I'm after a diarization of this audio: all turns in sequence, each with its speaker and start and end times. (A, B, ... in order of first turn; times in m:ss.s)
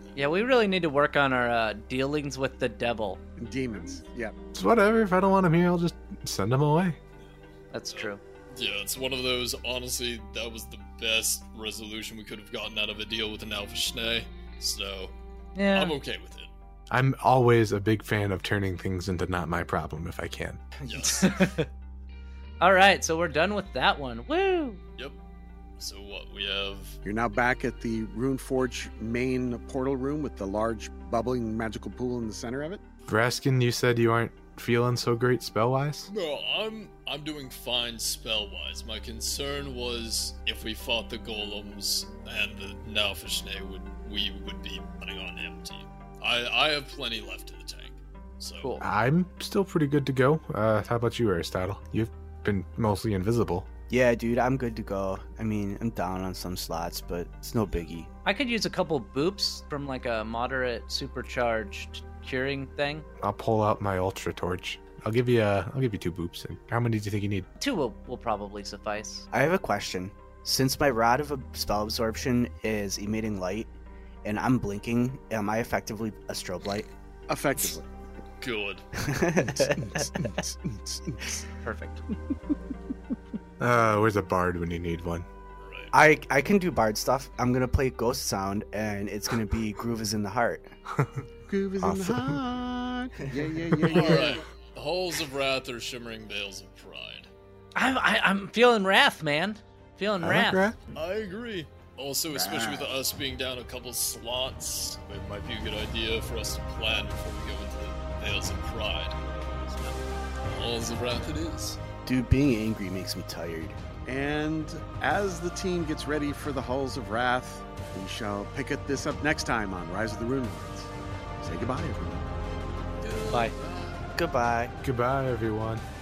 0:00.1-0:03.2 A
0:03.4-0:04.4 B
0:04.5-0:07.0 C
0:07.7-0:08.2 A
0:07.9-0:15.1 D
0:15.5-0:15.9 A
0:15.7-0:16.5 D
0:16.9-0:20.6 C
0:20.8-0:21.4 D
0:21.0-0:21.7 A
0:22.6-0:24.8 A
0:25.8-0:27.0 D
0:27.0-0:32.8 B
0:33.1-0:36.1 C
0:36.1-0:48.7 D
0:48.6-0:48.8 A
0:48.8-0:53.7 C
0:53.9-0:58.1 E
0:58.2-1:03.0 A
1:03.2-1:07.5 C
1:07.6-1:09.2 A
1:09.3-1:13.7 E
1:14.2-1:16.9 E
1:17.3-1:17.8 B
1:18.4-1:18.8 D
1:19.0-1:20.3 E
1:19.4-1:21.4 B
1:21.6-1:22.0 A
1:23.6-1:25.3 C
1:25.6-1:25.9 D
1:25.9-1:30.7 E
1:30.9-1:31.2 C
1:31.5-1:34.4 B
1:31.8-1:32.4 C
1:33.4-1:34.3 E
1:33.9-1:37.3 D
1:37.7-1:40.7 A
1:40.2-1:40.8 C
1:40.9-1:51.8 D
1:42.3-1:42.9 E
1:52.0-1:53.8 E
1:54.0-2:02.3 B
2:03.0-2:04.0 D
2:04.1-2:04.8 E
2:04.8-2:05.8 C